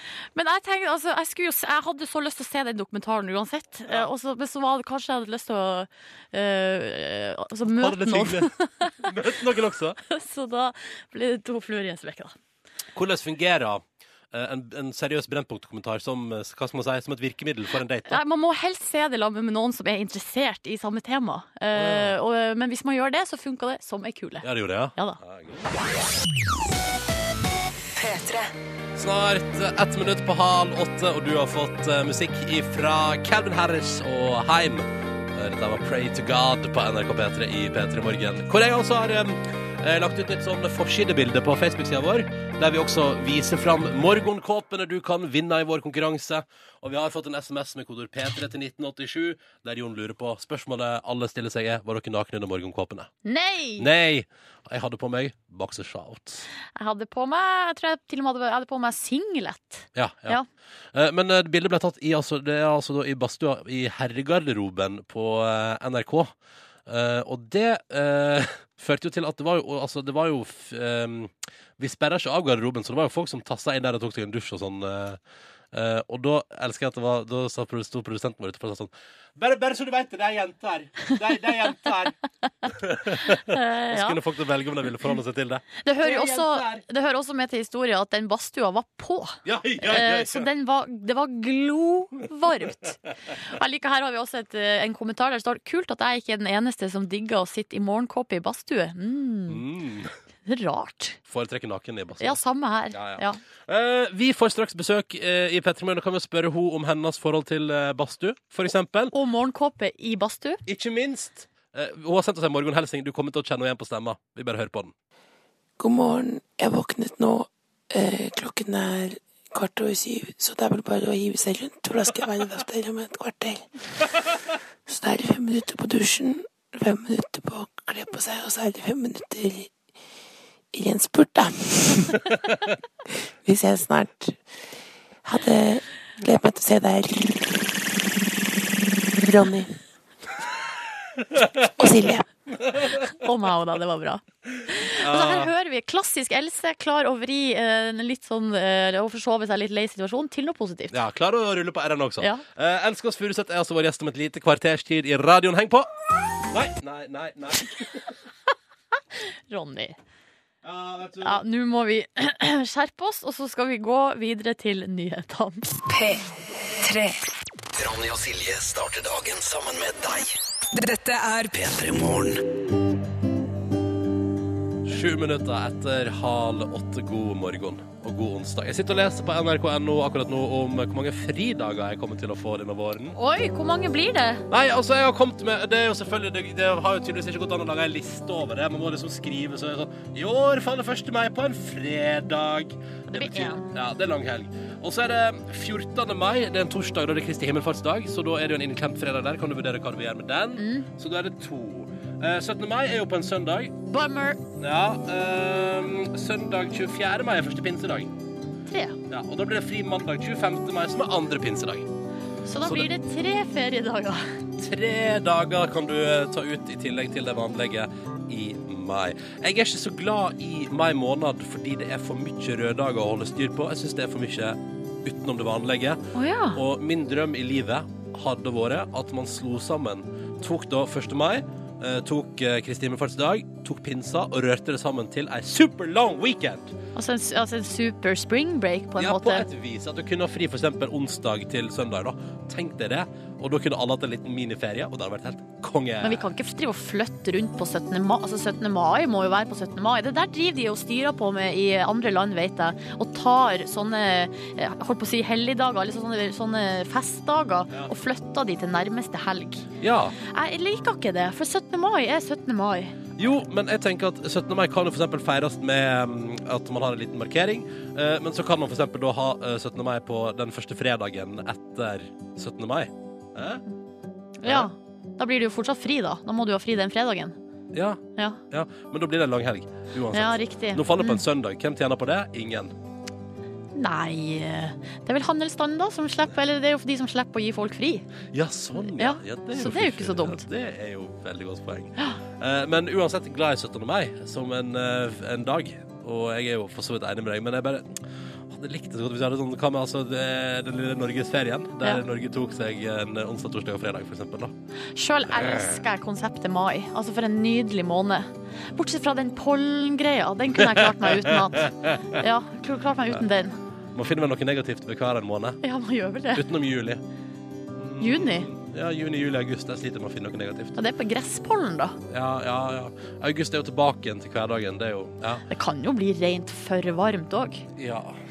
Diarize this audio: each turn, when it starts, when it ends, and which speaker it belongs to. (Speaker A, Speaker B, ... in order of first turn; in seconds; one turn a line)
Speaker A: 0.3-9.1
Speaker B: 7.7-10.0
Speaker A: 10.1-12.3
Speaker B: 12.9-18.2
Speaker A: 18.1-25.2
Speaker B: 21.7-22.1
Speaker B: 24.4-25.8
Speaker C: 27.9-28.5
Speaker B: 28.9-53.1
Speaker A: 53.2-53.9
Speaker B: 53.8-56.4
Speaker A: 56.8-60.5
Speaker B: 59.9-60.4
Speaker B: 60.9-66.3
Speaker B: 66.9-75.2
Speaker B: 75.7-82.1
Speaker B: 82.7-86.8
Speaker A: 83.2-84.2
Speaker A: 85.8-99.6
Speaker B: 89.4-90.5
Speaker B: 99.5-100.1
Speaker A: 100.5-101.2
Speaker B: 101.3-102.4
Speaker A: 102.2-103.4
Speaker B: 102.9-109.1
Speaker A: 109.1-110.6
Speaker B: 110.7-114.9
Speaker D: 115.8-123.6
Speaker D: 124.9-129.7
Speaker D: 130.7-132.2
Speaker D: 133.4-134.4
Speaker D: 135.2-137.6
Speaker D: 139.1-139.7
Speaker B: 141.2-141.6
Speaker D: 141.8-142.2
Speaker B: 142.5-143.1
Speaker A: 143.1-150.9
Speaker B: 144.5-145.5
Speaker B: 150.9-155.9
Speaker B: 156.4-158.2
Speaker A: 159.5-160.0
Speaker B: 160.6-161.4
Speaker A: 161.2-165.7
Speaker C: 165.8-166.3
Speaker C: 166.8-167.2
Speaker E: 167.7-170.3
Speaker C: 170.7-171.6
Speaker E: 171.5-172.4
Speaker B: 174.8-183.2
Speaker A: 183.2-184.5
Speaker B: 184.5-203.7
Speaker A: 193.1-193.7
Speaker A: 200.6-200.9
Speaker A: 203.9-204.4
Speaker B: 204.6-208.1
Speaker A: 208.7-209.0
Speaker B: 209.1-211.9
Speaker A: 212.4-214.3
Speaker B: 212.6-212.9
Speaker B: 214.6-236.7
Speaker A: 226.1-226.6
Speaker A: 236.9-239.5
Speaker B: 239.0-246.2
Speaker A: 246.0-259.7
Speaker B: 259.8-260.1
Speaker A: 260.2-262.9
Speaker B: 263.2-273.6
Speaker A: 274.4-277.4
Speaker B: 274.4-274.7
Speaker B: 277.7-282.7
Speaker A: 280.1-281.2
Speaker A: 283.7-288.1
Speaker B: 288.3-304.5
Speaker A: 288.8-290.4
Speaker A: 304.9-313.6
Speaker B: 305.3-305.8
Speaker B: 310.5-312.0
Speaker B: 313.9-315.6
Speaker A: 315.6-316.4
Speaker B: 316.3-317.0
Speaker B: 317.7-320.8
Speaker A: 318.0-318.5
Speaker A: 320.8-322.0
Speaker B: 322.1-325.4
Speaker A: 325.5-327.6
Speaker B: 327.8-328.2